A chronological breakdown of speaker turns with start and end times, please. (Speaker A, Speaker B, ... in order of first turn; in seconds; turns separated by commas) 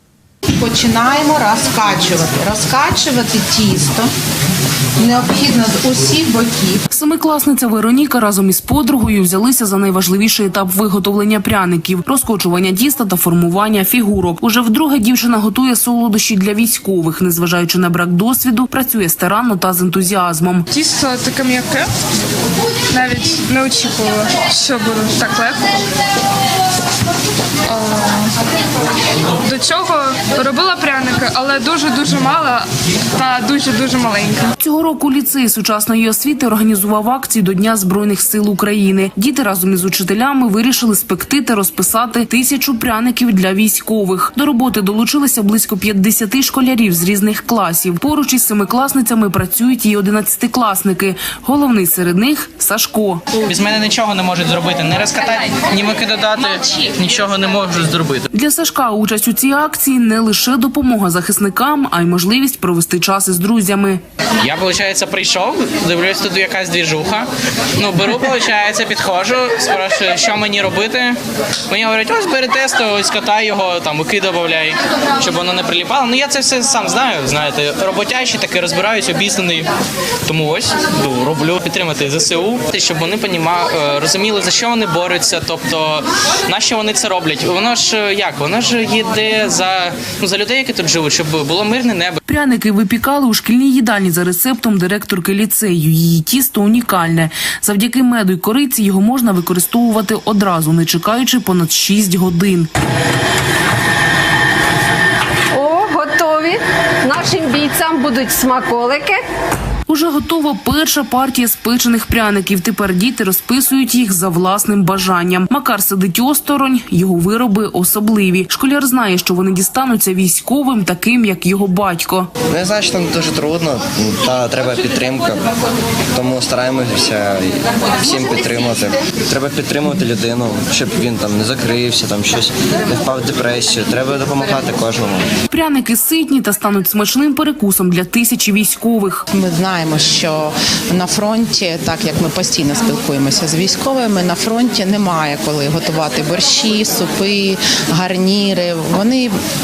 Speaker A: 0.6-4.1, Speaker A: 5.0-6.8, Speaker B: 6.9-20.7, Speaker C: 20.7-21.9, Speaker C: 22.9-25.8, Speaker C: 27.7-28.3, Speaker C: 29.4-34.5, Speaker B: 34.6-53.2, Speaker D: 53.4-58.3, Speaker B: 58.3-64.0, Speaker D: 64.4-71.2, Speaker D: 71.7-79.7, Speaker D: 80.3-92.2, Speaker B: 92.3-102.7, Speaker E: 105.5-109.2, Speaker B: 109.9-122.3, Speaker F: 122.5-125.5, Speaker F: 126.1-135.3, Speaker B: 135.5-139.2, Speaker A: 139.3-149.4